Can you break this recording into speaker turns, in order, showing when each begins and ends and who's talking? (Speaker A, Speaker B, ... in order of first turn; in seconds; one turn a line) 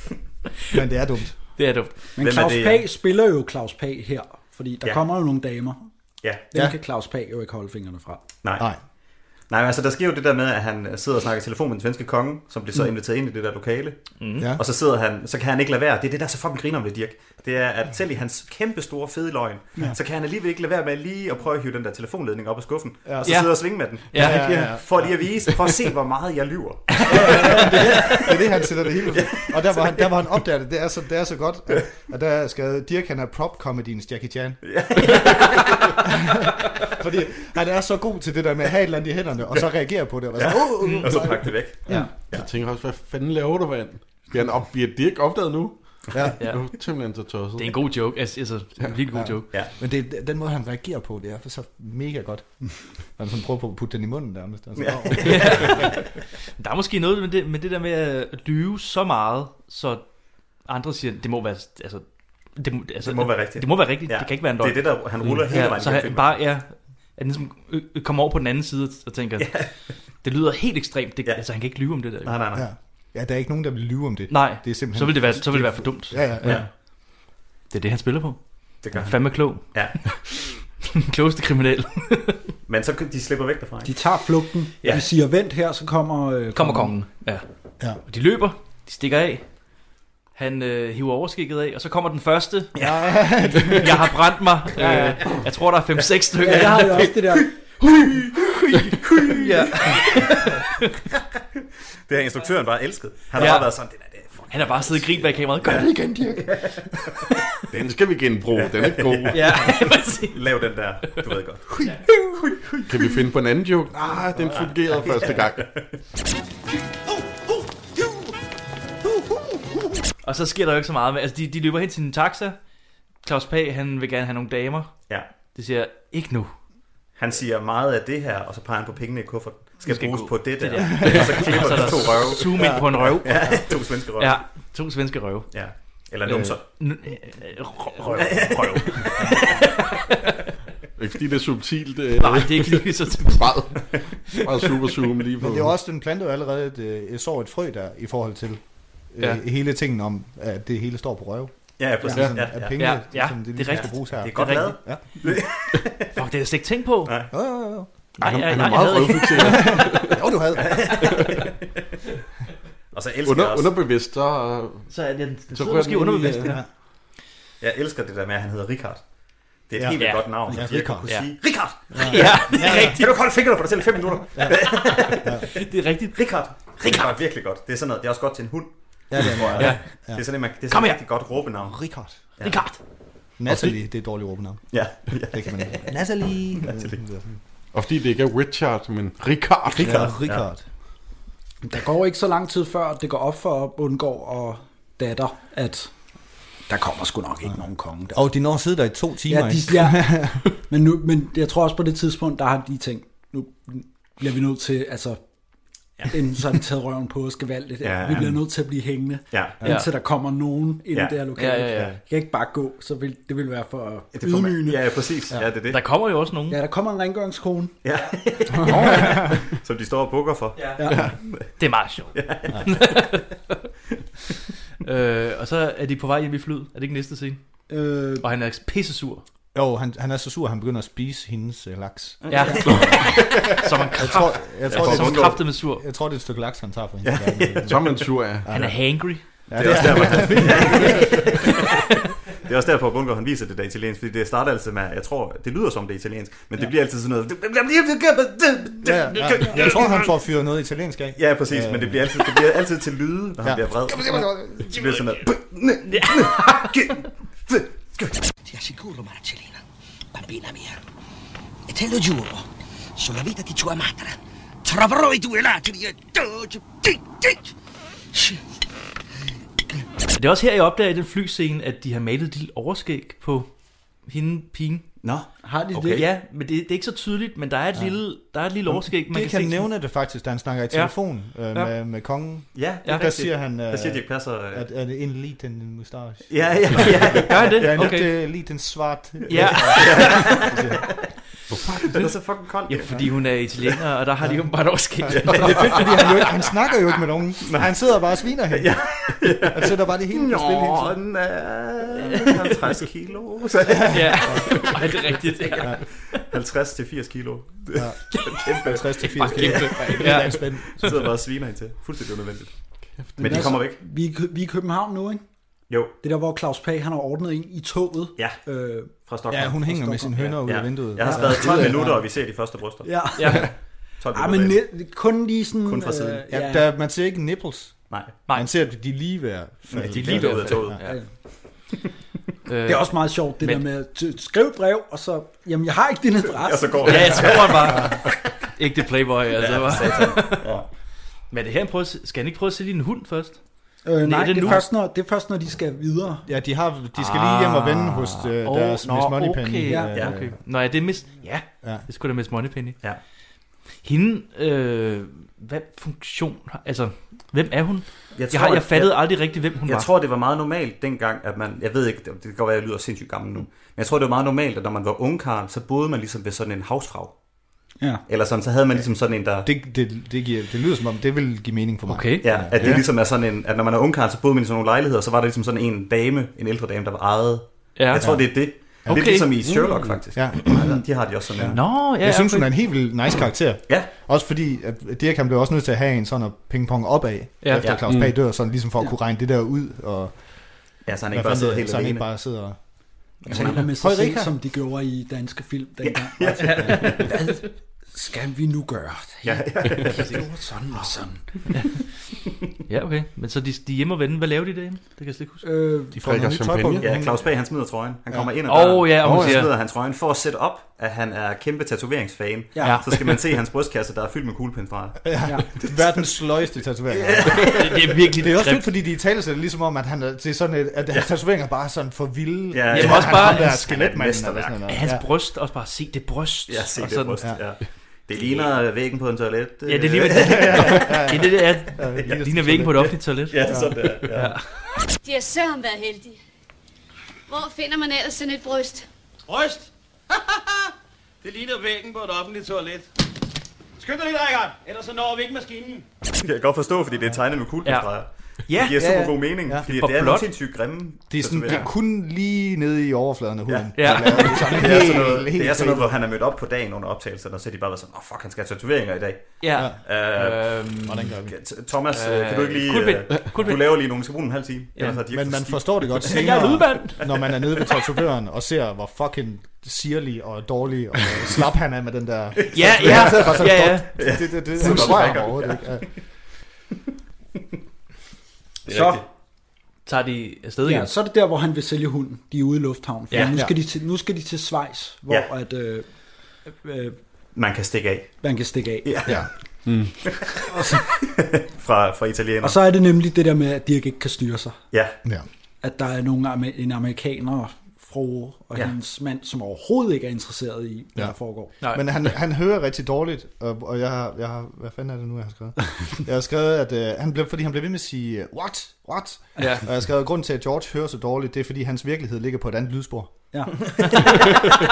Speaker A: 0.7-1.4
Speaker B: 1.6-2.0
Speaker C: 2.2-5.9
Speaker D: 2.2-2.9
Speaker C: 6.5-8.2
Speaker D: 8.4-8.7
Speaker D: 9.5-28.4
Speaker B: 14.2-14.5
Speaker A: 23.1-23.4
Speaker B: 23.2-24.9
Speaker A: 24.1-25.1
Speaker B: 26.9-28.1
Speaker A: 27.1-35.3
Speaker D: 29.2-30.0
Speaker D: 34.6-35.9
Speaker A: 36.0-42.1
Speaker D: 40.4-42.5
Speaker B: 40.8-41.2
Speaker E: 41.9-45.8
Speaker E: 46.4-47.8
Speaker B: 47.6-49.5
Speaker A: 49.1-55.9
Speaker D: 54.8-55.8
Speaker B: 55.2-60.0
Speaker B: 60.6-62.0
Speaker B: 62.6-69.7
Speaker D: 63.0-66.4
Speaker D: 69.4-69.8
Speaker B: 70.2-72.4
Speaker D: 72.2-72.7
Speaker A: 72.5-76.6
Speaker B: 74.3-76.6
Speaker B: 77.7-78.4
Speaker D: 78.8-79.1
Speaker B: 78.9-82.5
Speaker D: 79.7-80.0
Speaker D: 82.7-84.0
Speaker C: 83.8-86.9
Speaker B: 86.5-87.5
Speaker B: 88.1-89.5
Speaker B: 90.4-100.9
Speaker A: 92.8-94.2
Speaker C: 94.8-95.2
Speaker C: 96.4-97.5
Speaker D: 99.1-100.0
Speaker D: 102.1-105.1
Speaker B: 103.4-103.8
Speaker B: 104.5-106.3
Speaker D: 105.6-107.3
Speaker C: 105.9-106.4
Speaker E: 107.7-109.6
Speaker D: 108.5-111.9
Speaker B: 109.3-112.0
Speaker D: 112.4-112.8
Speaker E: 112.9-115.8
Speaker D: 114.5-116.0
Speaker B: 120.2-122.6
Speaker B: 123.2-126.5
Speaker D: 127.2-134.4
Speaker B: 129.8-135.5
Speaker D: 135.5-136.7
Speaker B: 136.3-140.3
Speaker D: 138.1-139.4
Speaker E: 141.0-143.8
Speaker B: 142.2-145.0
Speaker E: 144.4-145.7
Speaker A: 145.4-148.6
Speaker A: 149.1-155.0
Speaker D: 151.8-152.8
Speaker E: 152.1-152.4
Speaker B: 152.7-154.8
Speaker D: 153.8-156.2
Speaker B: 156.1-157.2
Speaker D: 157.1-157.3
Speaker A: 157.3-157.9
Speaker B: 158.2-159.8
Speaker E: 158.2-160.2
Speaker A: 159.4-161.0
Speaker D: 160.6-161.5
Speaker E: 160.9-161.3
Speaker D: 162.9-163.7
Speaker E: 163.2-164.9
Speaker B: 164.9-166.6
Speaker E: 165.5-166.6
Speaker A: 166.3-166.7
Speaker D: 167.6-169.0
Speaker D: 169.7-175.6
Speaker A: 169.8-171.1
Speaker B: 170.0-173.3
Speaker A: 171.9-173.0
Speaker A: 174.3-175.5
Speaker B: 175.4-177.2
Speaker D: 176.2-181.8
Speaker A: 179.1-180.2
Speaker B: 179.6-179.9
Speaker B: 180.7-181.0
Speaker A: 181.7-182.2
Speaker B: 182.4-182.8
Speaker A: 183.4-184.7
Speaker D: 184.7-185.9
Speaker A: 185.3-187.3
Speaker D: 186.6-187.0
Speaker E: 187.7-190.1
Speaker A: 189.8-190.6
Speaker D: 189.8-190.5
Speaker C: 191.6-195.9
Speaker C: 196.7-198.2
Speaker A: 198.1-200.4
Speaker C: 199.3-205.2
Speaker C: 206.1-214.8
Speaker D: 207.8-208.3
Speaker D: 209.3-209.6
Speaker B: 209.6-209.9
Speaker B: 211.4-212.0
Speaker D: 214.1-215.8
Speaker B: 215.7-216.6
Speaker C: 216.5-217.8
Speaker D: 217.8-221.4
Speaker B: 218.0-218.6
Speaker E: 218.7-219.1
Speaker B: 220.6-220.9
Speaker B: 221.6-223.4
Speaker D: 222.1-222.8
Speaker B: 224.8-227.4
Speaker C: 227.7-228.2
Speaker B: 228.2-229.2
Speaker A: 229.5-241.7
Speaker D: 232.2-233.6
Speaker B: 232.3-235.8
Speaker D: 234.7-235.4
Speaker D: 237.0-238.0
Speaker E: 237.7-238.7
Speaker B: 238.5-240.0
Speaker D: 239.5-250.0
Speaker B: 240.6-240.9
Speaker A: 248.8-252.2
Speaker D: 251.2-256.8
Speaker A: 253.4-255.6
Speaker B: 255.8-256.9
Speaker F: 258.5-259.6
Speaker F: 260.1-260.8
Speaker F: 261.7-262.5
Speaker F: 263.0-267.5
Speaker F: 268.1-268.4
Speaker B: 270.1-273.5
Speaker B: 274.1-274.9
Speaker D: 275.0-276.1
Speaker C: 275.4-276.1
Speaker B: 275.9-279.7
Speaker A: 278.7-290.9
Speaker D: 282.5-284.7
Speaker B: 282.8-283.2
Speaker D: 286.3-287.7
Speaker B: 287.2-288.2
Speaker D: 289.2-290.8
Speaker B: 289.3-290.5
Speaker D: 291.8-293.1
Speaker B: 292.7-296.5
Speaker A: 294.2-294.5
Speaker A: 295.0-298.9
Speaker D: 295.1-296.1
Speaker D: 297.5-297.8
Speaker D: 298.5-304.7
Speaker A: 299.4-300.9
Speaker B: 303.8-305.9
Speaker A: 303.9-304.7
Speaker D: 305.6-312.6
Speaker A: 307.8-311.0
Speaker B: 308.9-310.9
Speaker D: 313.2-313.8
Speaker C: 313.2-315.2
Speaker D: 315.7-315.9
Speaker C: 316.0-318.9
Speaker D: 319.1-323.4
Speaker A: 319.3-321.8
Speaker C: 321.0-322.0
Speaker C: 322.8-323.5
Speaker B: 323.2-323.5
Speaker D: 324.0-324.6
Speaker C: 324.1-326.6
Speaker D: 325.6-326.2
Speaker A: 326.3-330.8
Speaker D: 327.9-328.2
Speaker B: 328.3-328.5
Speaker D: 329.7-330.9
Speaker B: 329.8-331.0
Speaker B: 332.5-333.6
Speaker C: 332.7-337.4
Speaker D: 336.4-338.1
Speaker B: 336.8-338.1
Speaker B: 338.6-340.6
Speaker D: 339.4-340.7
Speaker B: 341.3-344.7
Speaker C: 343.9-346.2
Speaker A: 346.3-350.4
Speaker B: 346.9-352.9
Speaker C: 349.7-349.9
Speaker B: 353.8-359.9
Speaker D: 358.2-367.2
Speaker D: 368.1-369.5
Speaker A: 369.4-372.8
Speaker B: 371.9-372.4
Speaker D: 372.2-381.6
Speaker B: 377.8-378.2
Speaker A: 378.0-378.3
Speaker A: 378.9-379.1
Speaker B: 378.9-379.3
Speaker E: 379.4-379.9
Speaker A: 380.1-380.8
Speaker A: 381.4-390.2
Speaker B: 381.5-382.5
Speaker B: 387.4-387.8
Speaker E: 387.9-388.2
Speaker D: 390.9-392.1
Speaker A: 391.1-392.6
Speaker C: 393.3-401.3
Speaker B: 393.3-393.6
Speaker A: 393.3-394.3
Speaker D: 395.8-397.1
Speaker B: 396.4-397.3
Speaker D: 399.2-400.2
Speaker B: 399.9-400.2
Speaker B: 402.7-405.4
Speaker C: 405.4-405.9
Speaker E: 405.9-406.9
Speaker A: 406.0-407.4
Speaker D: 406.8-415.9
Speaker B: 408.4-409.6
Speaker E: 409.0-409.5
Speaker C: 412.5-412.8
Speaker B: 412.6-413.1
Speaker A: 415.1-425.1
Speaker D: 416.9-417.9
Speaker B: 417.4-418.7
Speaker D: 422.5-424.7
Speaker B: 422.7-423.8
Speaker B: 424.7-427.4
Speaker D: 426.5-431.1
Speaker B: 429.7-434.6
Speaker A: 430.1-433.0
Speaker D: 431.9-432.2
Speaker D: 433.3-434.4
Speaker A: 433.5-433.8
Speaker G: 435.0-436.2
Speaker G: 437.3-438.9
Speaker H: 439.3-439.6
Speaker H: 441.2-442.8
Speaker H: 443.8-445.8
Speaker D: 446.2-451.7
Speaker B: 447.6-449.1
Speaker A: 448.8-449.7
Speaker B: 449.6-450.3
Speaker A: 451.1-455.9
Speaker D: 453.5-460.7
Speaker B: 453.8-454.6
Speaker B: 459.4-461.2
Speaker A: 460.9-461.4
Speaker D: 461.3-466.1
Speaker B: 461.9-464.0
Speaker B: 464.8-465.0
Speaker A: 465.1-475.9
Speaker B: 466.0-467.5
Speaker D: 472.4-475.9
Speaker B: 472.5-475.3
Speaker D: 478.7-479.0
Speaker C: 478.7-479.0
Speaker B: 479.9-480.9
Speaker C: 480.6-485.9
Speaker B: 483.1-483.4
Speaker C: 486.4-487.0
Speaker D: 487.4-488.2
Speaker C: 488.2-489.2
Speaker D: 488.8-489.2
Speaker E: 489.7-490.0
Speaker C: 490.5-490.8
Speaker D: 490.9-492.6
Speaker C: 492.4-494.6
Speaker C: 495.6-501.5
Speaker A: 501.0-513.1
Speaker B: 501.6-501.9
Speaker B: 509.4-509.7